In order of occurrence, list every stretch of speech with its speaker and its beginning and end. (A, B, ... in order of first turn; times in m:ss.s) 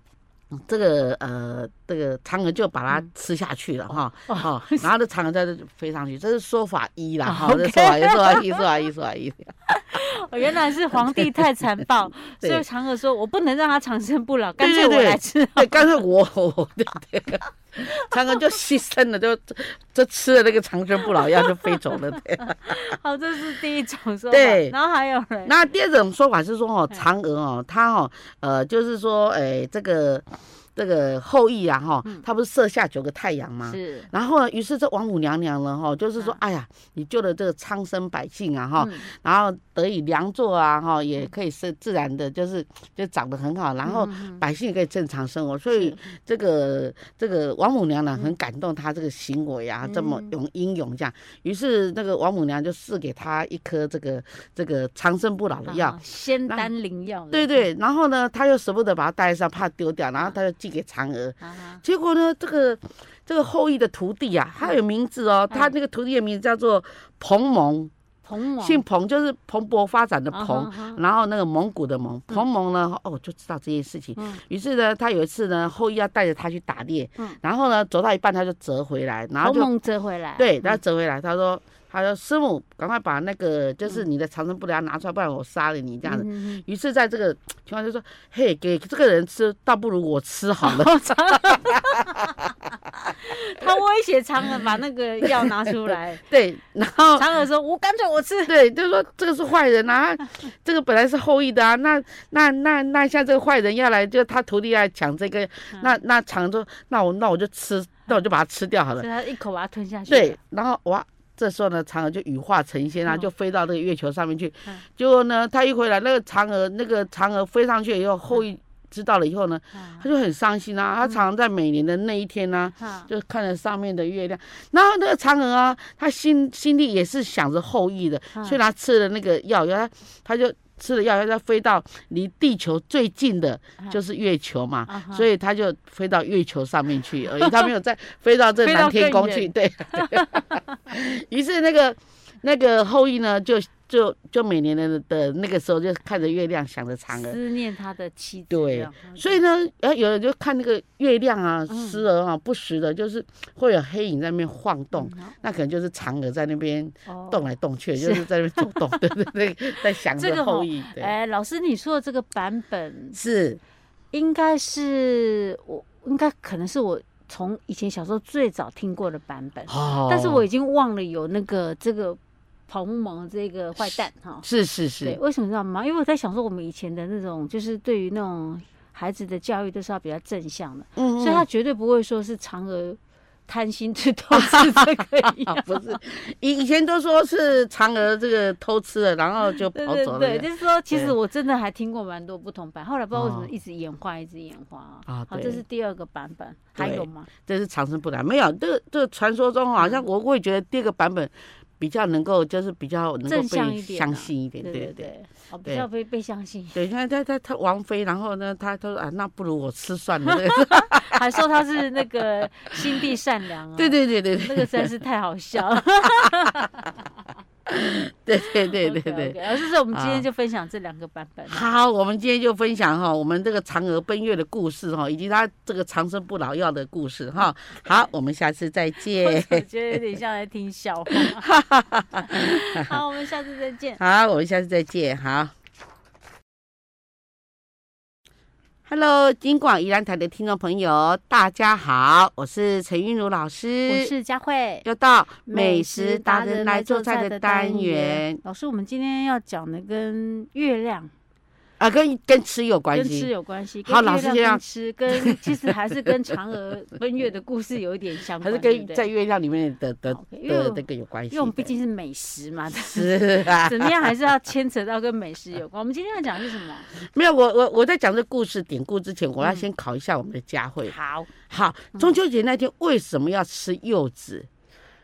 0:00.5-0:09.5 A
0:04.3-0:04.9 B
0:07.2-0:08.7 B
0:09.7-0:15.9 B
0:14.6-0:22.8 A
0:18.1-0:18.4 B
0:21.0-0:25.5 B
0:24.3-0:24.7 A
0:25.5-0:56.7 A
0:33.6-0:34.1 B
0:38.8-0:39.1 B
0:43.8-0:44.4 B
0:45.7-0:46.0 B
0:49.8-0:50.4 B
0:55.7-0:57.7 B
0:57.3-1:07.9 A
1:01.4-1:01.8 B
1:08.2-1:08.8 B
1:08.6-1:19.7 A
1:10.3-1:11.0 B
1:14.2-1:14.4 B
1:19.4-1:20.8 B
1:20.4-1:31.6 A
1:26.0-1:26.6 B
1:30.6-1:32.3 B
1:33.0-1:36.2 B
1:36.3-1:37.3 A
1:37.2-1:38.5 B
1:38.5-1:49.1 A
1:49.0-1:50.4 B
1:50.1-2:27.4 A
1:59.7-2:00.1 B
2:02.8-2:03.1 B
2:14.9-2:15.3 B
2:17.4-2:17.7 B
2:18.6-2:20.7 B
2:27.1-2:29.4 B
2:28.5-2:41.1 A
2:31.7-2:32.0 B
2:34.9-2:35.4 B
2:37.1-2:37.4 B
2:38.0-2:39.2 B
2:40.0-2:43.2 B
2:43.2-2:43.6 A
2:44.1-2:54.5 B
2:49.7-2:50.5 A
2:53.8-2:55.2 A
2:55.0-3:06.0 B
3:01.0-3:01.4 A
3:04.4-3:11.2 A
3:09.4-3:17.3 B
3:13.1-3:13.5 A
3:15.1-3:15.6 A
3:16.8-3:25.1 A
3:19.8-3:20.0 B
3:23.3-3:26.8 B
3:26.7-3:31.2 A
3:30.3-3:37.0 B
3:33.8-3:34.9 A
3:37.7-3:39.4 A
3:38.4-3:41.7 B
3:39.9-3:40.2 A
3:41.5-3:49.6 A
3:49.2-3:51.5 B
3:51.1-3:52.6 A
3:52.2-3:54.0 B
3:54.0-3:55.5 A
3:58.9-4:04.1 A
4:03.9-4:04.9 B
4:04.8-4:08.4 A
4:05.5-4:11.1 B
4:11.8-4:13.3 A
4:12.9-4:19.1 B
4:13.9-4:14.6 A
4:15.1-4:15.4 A
4:18.4-4:21.7 A
4:20.1-4:26.9 B
4:22.7-4:24.1 A
4:26.9-4:30.9 A
4:29.4-4:29.7 B
4:30.9-4:31.3 B
4:31.5-4:34.5 A